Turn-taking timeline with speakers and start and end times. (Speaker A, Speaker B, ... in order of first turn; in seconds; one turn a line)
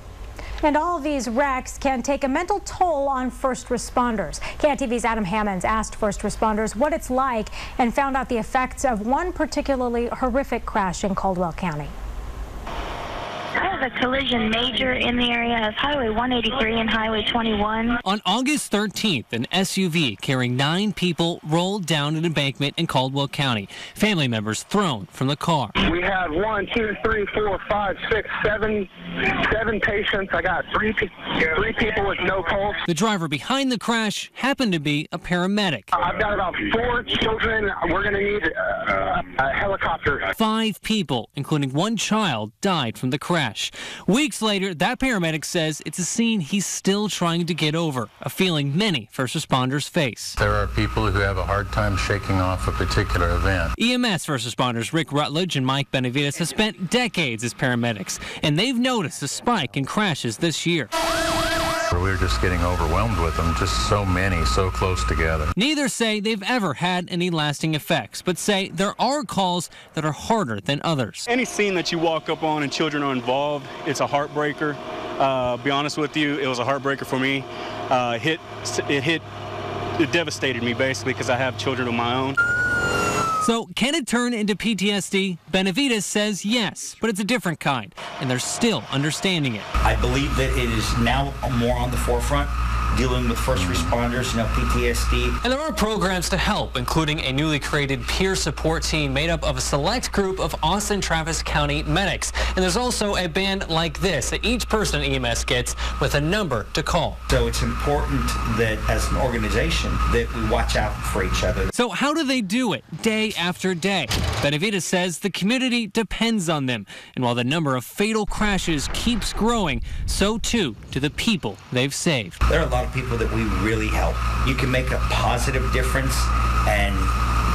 Speaker A: 0.6-11.9
Speaker B: 13.6-18.0
Speaker C: 18.0-25.7
Speaker D: 25.8-32.8
Speaker C: 32.9-35.9
Speaker D: 35.9-40.3
Speaker C: 40.4-50.4
Speaker E: 50.4-53.7
Speaker C: 53.8-60.9
Speaker E: 61.9-65.5
Speaker C: 65.6-71.3
Speaker F: 71.3-79.2
Speaker F: 80.0-82.4
Speaker C: 83.4-89.7
Speaker G: 89.8-95.3
Speaker E: 93.5-93.9
Speaker C: 95.4-107.2
Speaker G: 107.3-111.7
Speaker C: 111.7-122.4
Speaker G: 122.5-127.1